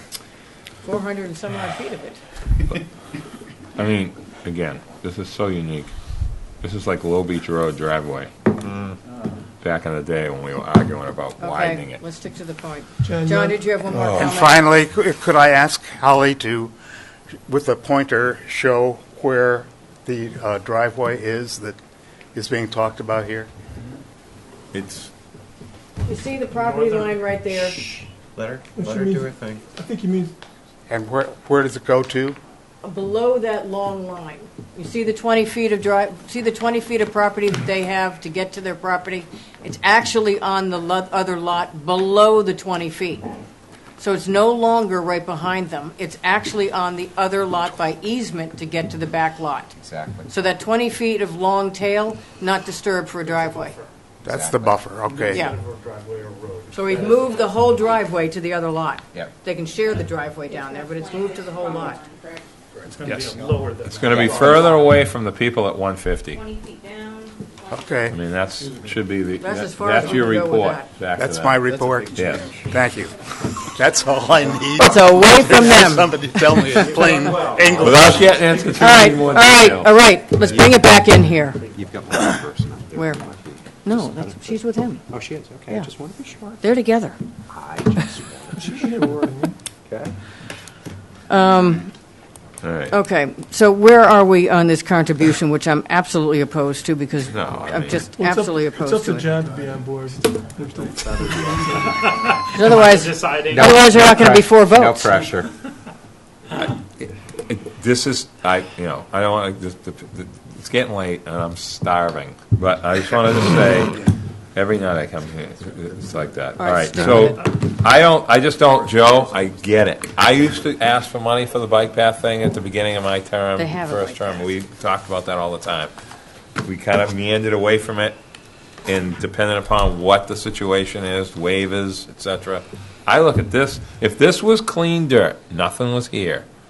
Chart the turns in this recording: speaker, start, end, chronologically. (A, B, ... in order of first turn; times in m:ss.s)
0:00.8-0:02.2 A
0:03.8-0:05.9 B
0:06.6-0:08.3 B
0:09.6-0:12.0 B
0:11.4-0:14.6 A
0:13.0-0:14.1 C
0:14.1-0:16.7 D
0:17.4-0:21.8 D
0:22.3-0:23.5 D
0:24.7-0:25.1 B
0:26.0-0:27.8 A
0:26.6-0:27.2 E
0:28.3-0:29.6 F
0:28.8-0:30.3 C
0:30.9-0:32.4 D
0:32.8-0:43.3 A
0:44.0-0:49.7 A
0:49.8-0:50.3 F
0:50.3-0:53.8 A
0:53.2-0:53.9 E
0:54.2-0:55.5 D
0:54.2-0:54.8 F
0:55.1-0:57.3 E
0:55.3-0:55.6 A
0:56.7-1:02.0 A
0:57.3-0:58.0 G
1:00.6-1:02.4 G
1:02.7-1:04.9 E
1:03.8-1:06.4 B
1:04.0-1:04.6 F
1:06.4-1:07.8 G
1:07.7-1:08.2 D
1:08.1-1:11.6 B
1:09.4-1:10.9 A
1:11.2-1:18.4 D
1:12.1-1:12.5 B
1:14.8-1:16.9 A
1:16.6-1:19.7 E
1:17.8-1:19.9 B
1:18.7-1:21.6 A
1:20.4-1:20.9 F
1:21.6-1:24.6 F
1:22.9-1:23.2 A
1:23.8-1:25.0 A
1:25.1-1:26.6 F
1:26.6-1:27.2 A
1:27.5-1:28.9 F
1:28.5-1:29.6 C
1:29.9-1:30.1 F
1:31.3-1:31.9 A
1:32.6-1:32.9 B
1:32.9-1:39.3 A
1:37.3-1:38.0 B
1:38.1-1:41.9 C
1:41.0-1:41.8 F
1:41.8-1:44.3 E
1:42.5-1:45.2 A
1:43.5-1:45.5 F
1:47.4-2:05.9 B
1:56.6-1:57.4 A
2:03.6-2:04.3 A
2:06.6-2:08.2 B
2:08.8-2:16.4 B